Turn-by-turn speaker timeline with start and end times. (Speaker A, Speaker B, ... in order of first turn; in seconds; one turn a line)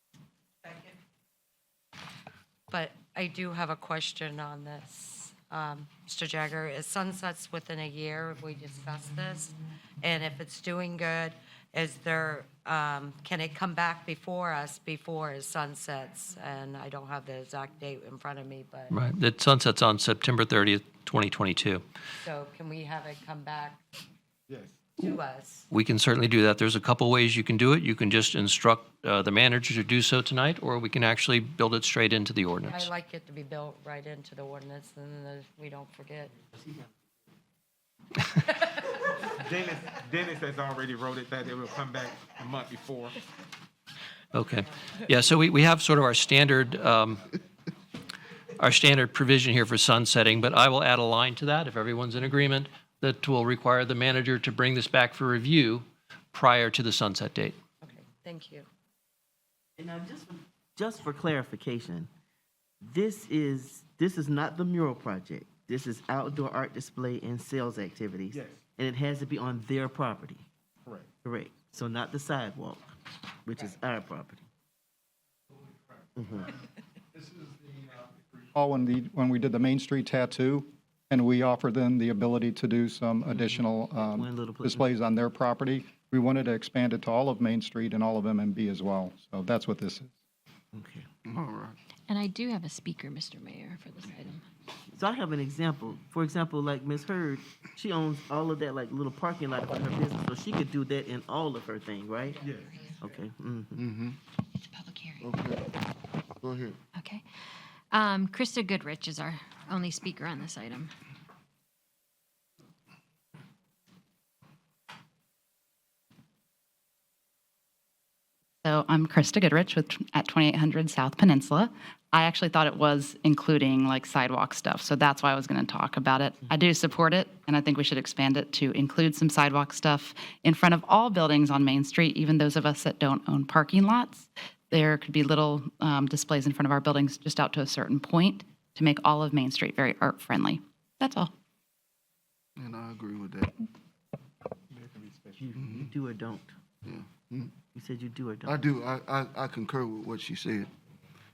Speaker A: 2.7-18.9
Speaker B: 18.9-21.8
Speaker A: 22.2-23.8
Speaker A: 25.0-25.6
Speaker B: 25.7-32.9
Speaker A: 32.7-36.3
Speaker C: 39.4-43.2
Speaker B: 44.3-47.3
Speaker B: 48.6-57.6
Speaker A: 57.8-58.6
Speaker D: 59.8-62.1
Speaker D: 62.8-70.4
Speaker C: 68.3-68.6
Speaker D: 71.2-72.9
Speaker D: 73.4-74.5
Speaker D: 76.2-76.5
Speaker E: 78.5-90.1
Speaker D: 83.3-84.9
Speaker D: 90.7-91.0
Speaker F: 91.2-91.8
Speaker G: 92.1-94.4
Speaker D: 94.9-103.8
Speaker F: 103.8-104.2
Speaker F: 105.2-105.7
Speaker F: 106.4-106.8
Speaker G: 107.0-107.2
Speaker G: 107.9-110.9
Speaker H: 118.6-141.3
Speaker F: 142.6-143.5
Speaker C: 144.7-145.3
Speaker D: 145.4-146.5
Speaker F: 145.6-145.9
Speaker F: 146.8-147.5
Speaker D: 147.7-148.7
Speaker F: 148.4-150.7